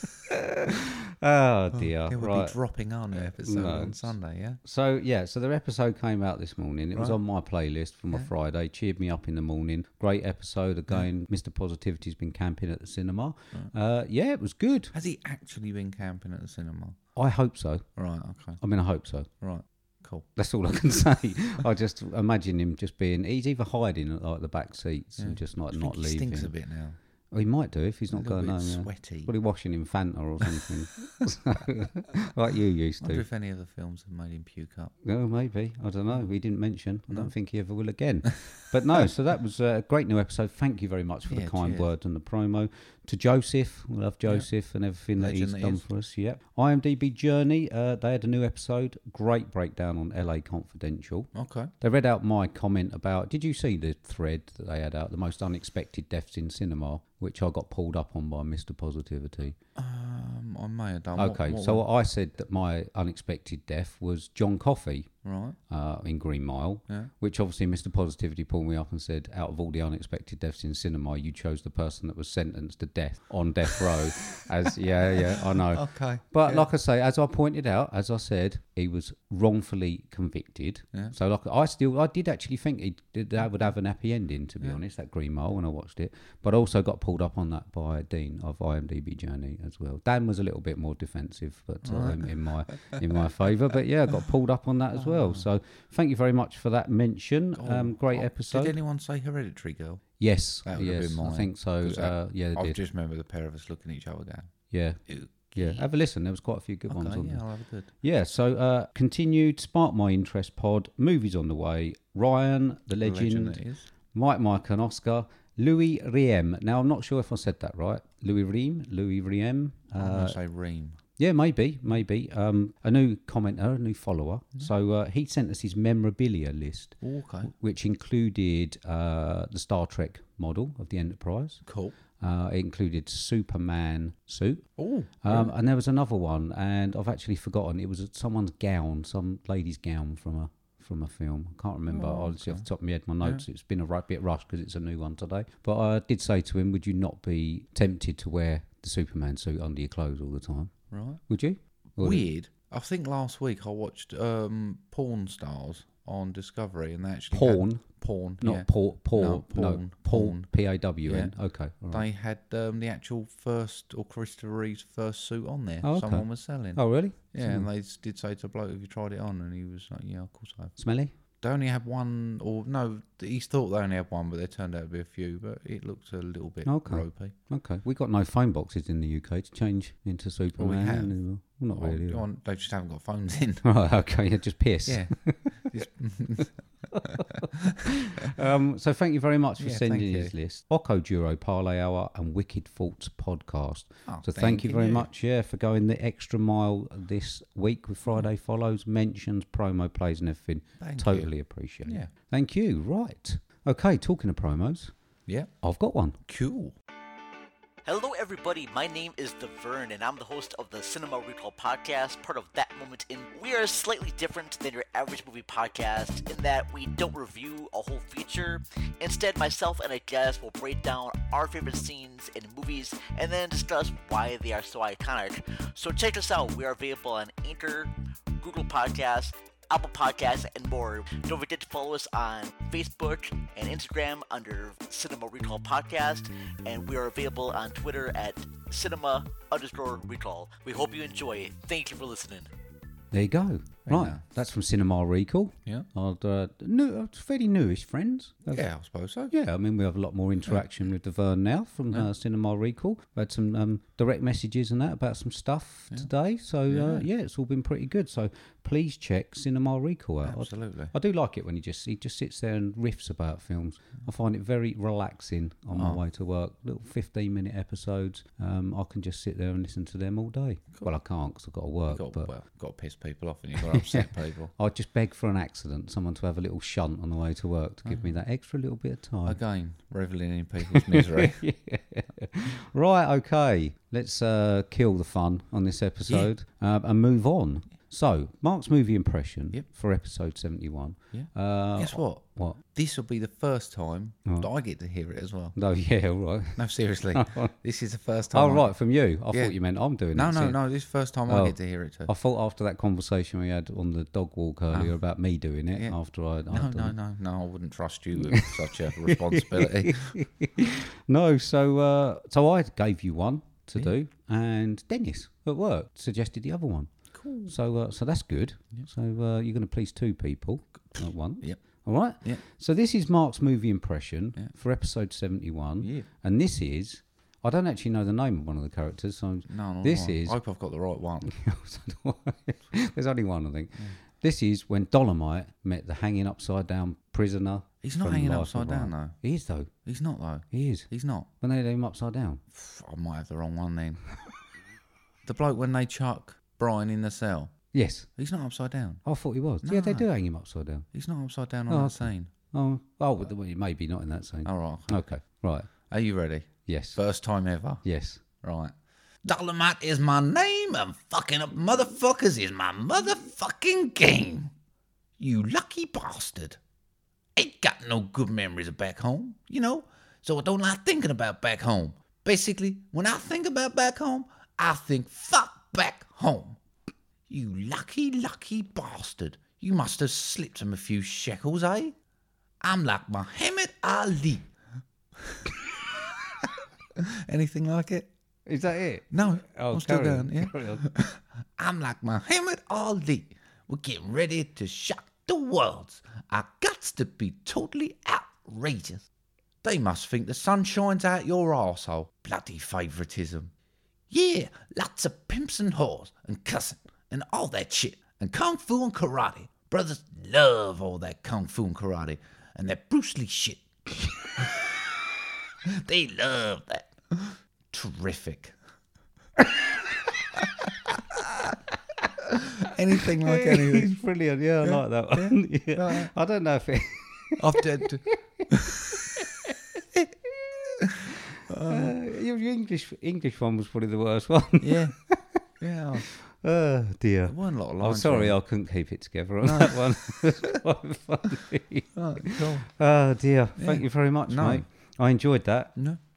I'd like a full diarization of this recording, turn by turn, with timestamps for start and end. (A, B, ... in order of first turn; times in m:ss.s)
0:00.3-0:02.6 A
0:01.7-0:04.6 B
0:03.4-0:14.9 A
0:06.9-0:07.2 B
0:14.9-0:17.0 B
0:17.2-0:17.9 A
0:18.0-0:18.6 B
0:18.6-0:19.3 A
0:19.4-0:20.3 B
0:20.4-0:26.5 A
0:25.2-0:27.0 B
0:27.3-0:33.2 A
0:28.1-0:29.3 B
0:33.0-0:34.9 B
0:35.0-0:51.3 A
0:41.3-0:41.9 B
0:45.2-0:45.8 B
0:51.3-0:51.7 B
0:51.8-0:59.6 A
0:59.8-1:01.8 B
1:01.2-1:05.1 A
1:05.2-1:05.6 B
1:05.7-1:38.8 A
1:15.2-1:16.7 B
1:31.8-1:33.0 B
1:35.0-1:35.4 B
1:37.6-1:40.0 B
1:40.2-1:42.8 A
1:40.6-1:44.5 B
1:44.7-1:45.0 A
1:45.1-1:45.8 B
1:45.5-1:47.4 A
1:46.9-1:47.9 B
1:48.0-1:53.6 A
1:53.0-1:53.9 B
1:54.1-2:00.4 A
2:00.0-2:01.0 B
2:01.2-2:11.6 A
2:07.0-2:07.5 B
2:11.6-2:11.9 B
2:12.2-2:14.7 A
2:14.8-2:15.5 B
2:15.2-2:30.7 A
2:21.9-2:22.6 B
2:30.9-2:31.2 B
2:31.3-2:32.2 A
2:32.0-2:40.5 B
2:37.3-2:42.0 A
2:41.0-2:41.3 B
2:41.9-2:50.7 B
2:45.8-2:47.7 A
2:50.8-2:51.1 A
2:51.4-2:57.3 B
2:56.6-3:02.2 A
3:00.6-3:01.1 B
3:01.7-3:03.6 B
3:03.6-3:05.6 A
3:04.8-3:07.7 B
3:07.0-3:24.9 A
3:09.6-3:10.3 B
3:14.0-3:15.1 B
3:20.8-3:21.3 B
3:21.8-3:22.1 B
3:25.6-3:26.2 A
3:26.3-3:26.7 B
3:27.8-4:02.5 C
4:03.1-4:08.6 A
4:03.8-4:04.2 B
4:08.4-4:09.3 B
4:09.3-4:32.3 A
4:16.7-4:17.0 B
4:20.2-4:20.9 B
4:25.7-4:26.0 B
4:31.9-4:34.5 B
4:33.6-4:39.4 A
4:37.8-4:38.1 B
4:39.2-4:41.4 B
4:40.7-4:52.6 A
4:51.1-4:55.6 B
4:55.5-4:57.5 A
4:56.6-4:58.7 B
4:58.3-5:00.6 A
4:59.3-4:59.6 B
5:00.1-5:02.1 B
5:01.3-5:06.9 A
5:04.7-5:05.0 B
5:06.5-5:10.2 B
5:08.3-5:16.9 A
5:17.1-5:17.5 B
5:17.4-5:30.4 A
5:21.0-5:21.6 B
5:25.8-5:26.1 B
5:29.5-5:31.3 B
5:31.2-5:39.7 A
5:37.8-5:39.2 B
5:39.8-5:41.3 B
5:40.5-5:40.9 A
5:41.4-5:42.4 A
5:42.5-5:44.0 B
5:45.2-5:47.5 B
5:47.7-5:48.1 A
5:48.2-5:49.0 B
5:49.0-5:50.8 A
5:49.6-5:50.1 B
5:50.9-5:52.3 B
5:51.7-5:55.7 A
5:54.4-5:55.0 B
5:55.9-5:57.8 B
5:56.6-5:57.0 A
5:57.8-5:58.2 A
5:58.4-5:58.7 B
5:59.2-6:04.5 B
6:05.2-6:06.6 B
6:07.4-6:16.6 B
6:17.3-6:21.9 B
6:22.6-6:24.4 B
6:25.2-6:25.5 B
6:26.4-6:28.1 B
6:28.4-6:30.8 A
6:29.1-6:39.1 B
6:39.6-6:43.5 B
6:44.1-6:54.7 B
6:55.7-6:58.5 B
7:02.4-7:04.0 B
7:03.2-7:08.1 A
7:04.6-7:06.1 B
7:07.4-7:09.0 B
7:09.1-7:09.5 A
7:11.5-7:11.9 B
7:11.7-7:15.4 A
7:14.6-7:15.0 B
7:15.6-7:16.1 B
7:16.0-7:25.7 A
7:17.3-7:18.4 B
7:19.4-7:20.6 B
7:21.9-7:22.7 B
7:23.6-7:24.6 B